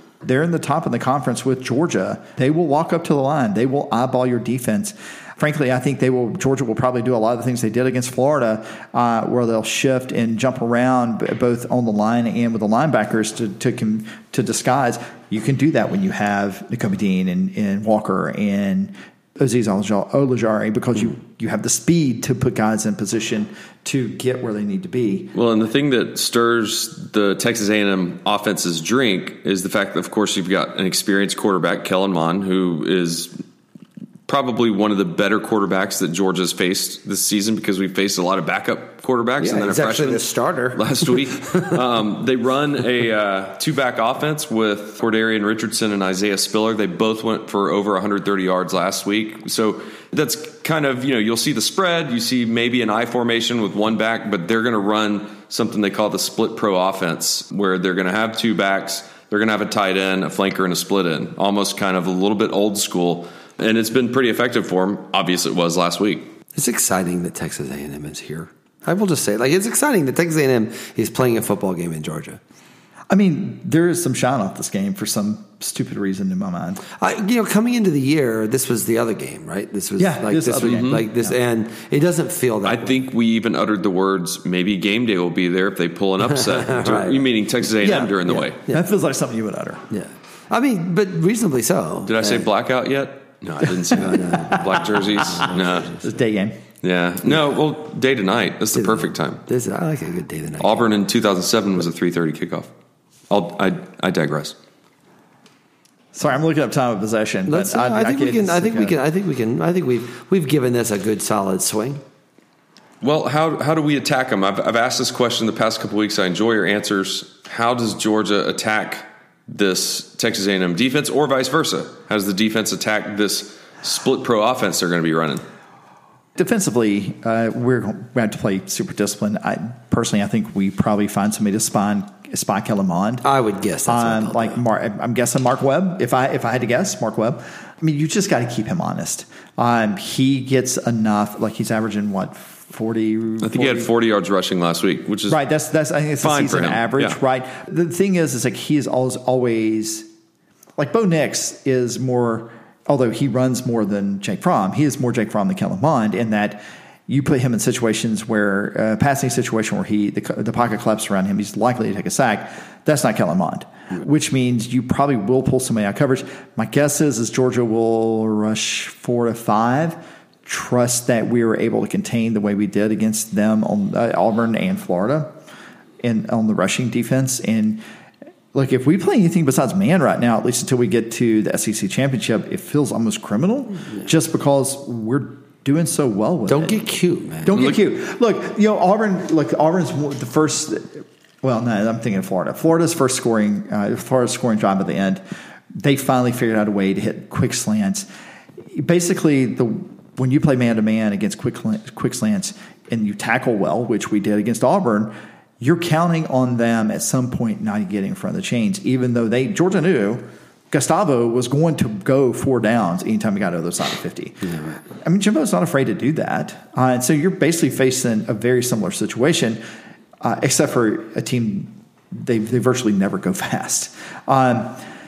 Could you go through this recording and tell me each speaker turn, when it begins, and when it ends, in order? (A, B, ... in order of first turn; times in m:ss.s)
0:00.2-0:25.3 A
0:25.3-0:33.3 B
0:34.3-1:06.3 B
0:39.4-0:41.8 C
1:06.6-1:12.4 C
1:13.1-1:16.8 A
1:17.0-1:23.1 C
1:20.0-1:21.4 A
1:20.6-1:21.1 B
1:22.6-1:28.6 B
1:26.2-1:27.3 C
1:27.8-1:29.8 A
1:28.2-1:28.9 C
1:29.9-1:32.5 C
1:32.1-1:36.0 B
1:33.9-1:36.0 C
1:34.4-1:34.8 A
1:36.0-1:36.6 A
1:36.8-1:39.4 B
1:38.7-1:40.9 C
1:40.6-1:42.7 B
1:43.3-1:44.6 B
1:46.1-1:49.0 A
1:47.5-1:52.0 C
1:53.0-2:05.4 B
2:06.4-2:13.2 A
2:13.2-2:14.6 C
2:13.9-2:23.9 A
2:23.4-2:25.4 B
2:25.3-2:30.1 A
2:26.2-2:27.2 B
2:30.8-2:55.3 A
2:56.0-2:57.8 A
2:58.5-3:06.8 A
3:06.5-3:07.6 C
3:07.4-3:15.2 A
3:07.5-3:07.8 B
3:15.7-3:18.1 A
3:18.7-3:39.6 A
3:40.2-3:44.8 A